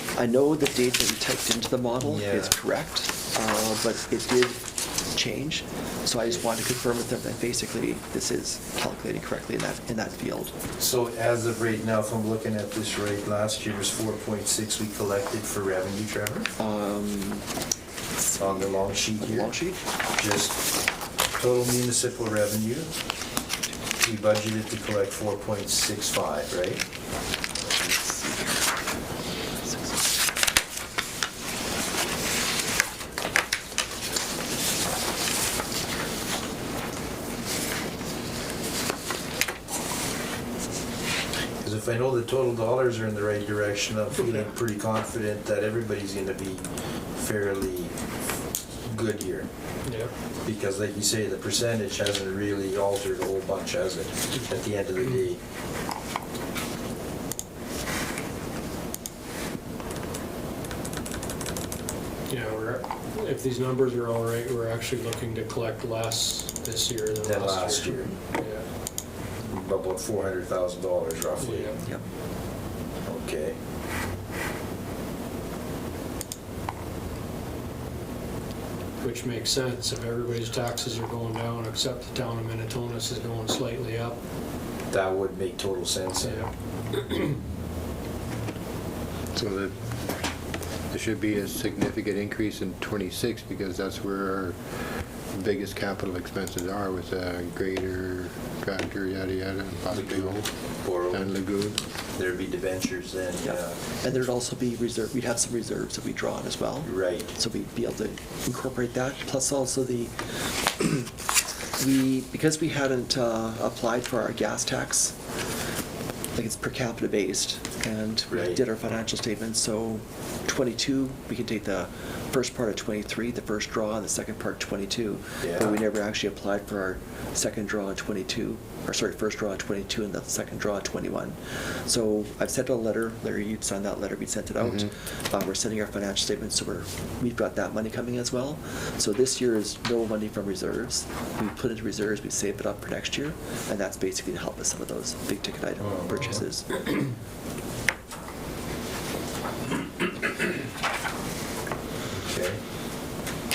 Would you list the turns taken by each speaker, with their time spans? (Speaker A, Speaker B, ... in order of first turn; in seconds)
Speaker A: 0.1-10.6, 16.6-17.5, 18.2-19.8, 27.6-28.7, 29.6-30.0, 103.4-111.1, 111.8-115.2, 116.3-146.9
Speaker B: 2.0-2.5, 10.8-16.5, 18.4-19.5, 20.1-20.7, 21.4-22.9, 24.0-26.8, 41.6-47.9, 48.9-49.5, 50.4-55.4, 67.2-68.1, 69.5-71.8, 73.0-73.5, 84.9-86.5, 99.9-101.3, 102.2-103.8, 106.8-107.3, 118.3-118.6, 125.4-125.7, 145.8-146.3, 152.2-152.6
Speaker C: 49.9-50.1, 62.3-68.6, 71.4-71.8, 79.0-84.2, 86.2-87.4
Speaker D: 89.3-90.0, 90.9-100.5, 101.1-101.8